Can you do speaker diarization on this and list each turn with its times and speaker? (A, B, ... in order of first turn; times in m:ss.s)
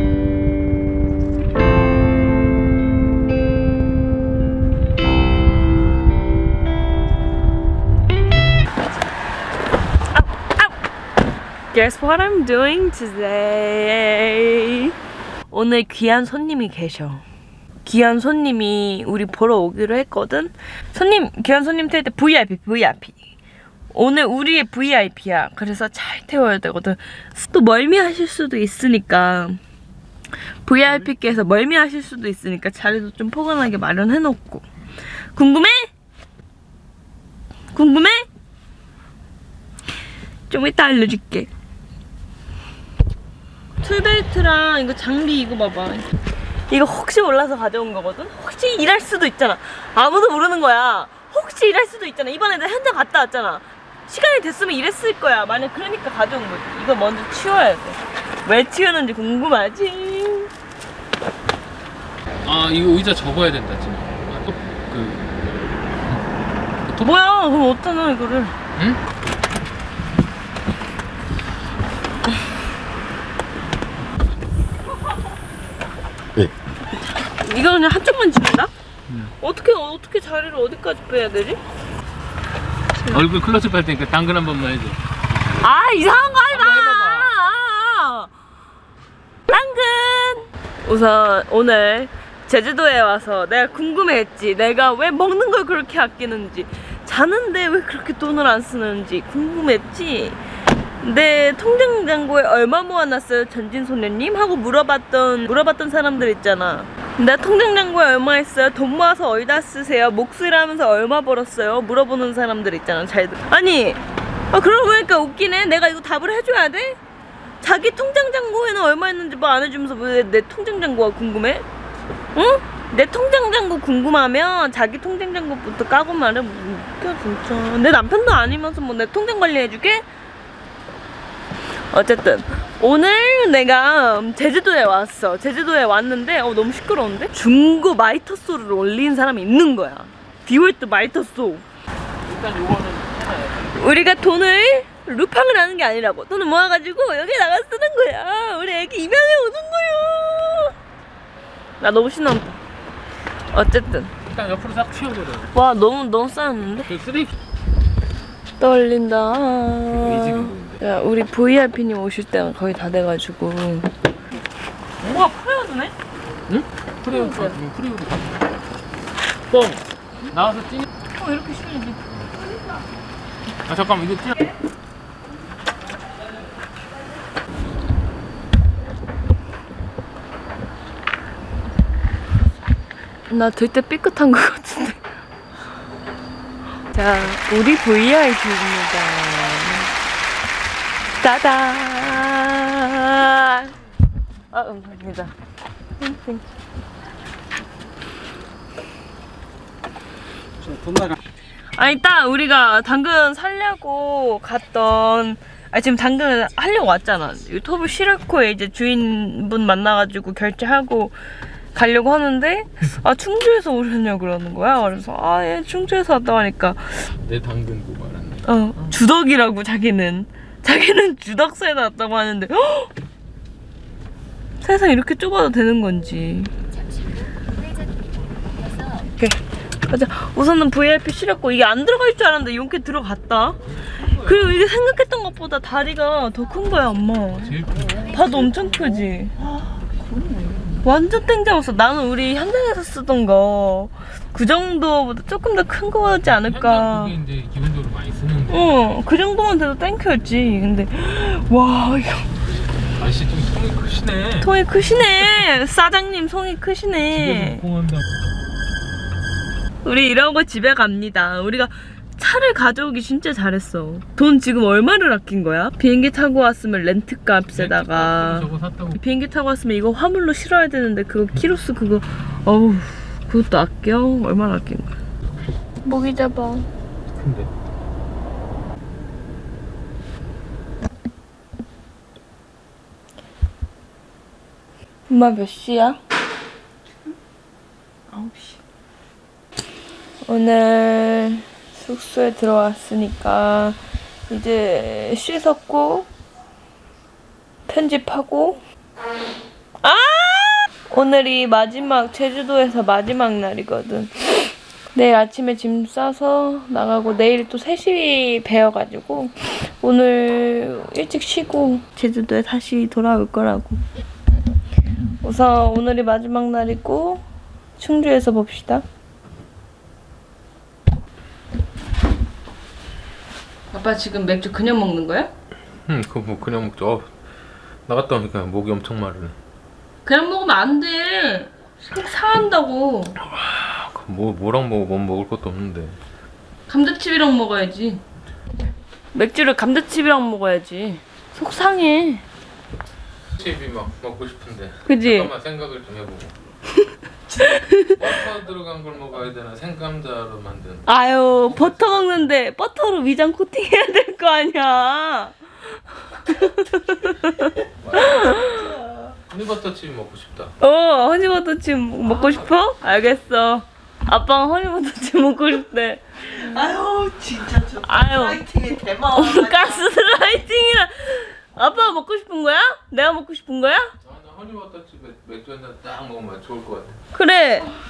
0:10.1-0:10.7 A
0:11.7-0:14.9 A
0:15.5-0:17.2 A
0:17.8-0:23.2 A
0:23.9-0:29.6 A
0:30.6-0:34.6 A
0:35.3-0:35.9 A
0:37.7-0:38.2 A
0:40.5-0:41.5 A
0:43.8-1:00.5 A
1:02.4-1:06.2 B
1:06.9-1:08.5 A
1:08.8-1:09.0 B
1:16.9-1:18.7 A
1:19.4-1:21.6 A
1:23.0-1:23.2 A
1:23.1-1:25.0 B
1:25.6-1:28.3 A
1:26.5-1:27.3 B
1:29.5-1:40.4 A
1:41.0-1:57.0 A
1:57.6-2:01.6 A
2:02.3-2:10.0 A
2:11.9-2:21.6 A
2:22.2-2:23.8 B
2:23.7-2:30.7 A
2:31.8-2:32.6 A
2:33.5-2:34.1 A
2:34.2-2:35.5 B
2:35.5-2:36.9 A
2:36.8-2:37.4 B
2:38.6-2:43.9 A
2:39.9-2:40.8 B
2:45.0-2:45.9 A
2:46.5-2:48.4 B
2:47.1-2:47.6 A
2:49.5-2:50.8 B
2:51.1-2:52.0 A
2:53.6-2:54.5 B
3:03.3-3:05.1 A
3:06.9-3:09.9 A
3:11.2-3:13.7 A
3:14.5-3:15.3 A
3:16.0-3:16.4 A
3:21.7-3:31.1 A
3:31.7-3:37.1 A
3:37.1-3:38.4 B
3:38.4-3:42.9 A
3:44.6-3:46.5 A
3:48.9-3:59.4 A
3:53.8-3:54.6 B
3:57.3-3:58.4 B
4:00.2-4:00.6 C
4:00.3-4:00.6 B
4:00.8-4:07.1 A
4:06.2-4:08.7 B
4:08.5-4:12.3 A
4:12.9-4:15.5 B
4:14.4-4:17.6 A
4:17.1-4:18.2 B
4:19.8-4:35.0 A
4:27.4-4:29.0 B
4:35.8-4:36.7 A
4:37.1-4:37.5 B
4:45.1-4:46.0 A
4:48.2-4:48.4 A
4:50.2-4:56.1 A
4:57.7-4:58.6 A
4:59.8-5:13.8 A
5:15.2-5:17.2 A
5:17.8-5:18.8 A
5:23.7-5:25.3 A
5:25.8-5:27.1 B
5:27.9-5:29.3 B
5:30.0-5:33.2 A
5:33.2-5:36.0 B
5:36.7-5:38.0 A
5:39.1-5:42.2 A
5:43.4-5:46.3 B
5:44.8-5:45.3 A
5:47.3-5:48.0 A
5:47.9-5:50.8 B
5:50.9-5:55.4 A
5:51.4-5:52.3 B
5:56.1-5:58.8 A
5:57.8-5:58.6 B
5:59.3-6:00.5 B
6:00.6-6:06.6 A
6:06.4-6:09.6 C
6:07.8-6:13.9 A
6:14.0-6:17.0 B
6:17.1-6:17.7 A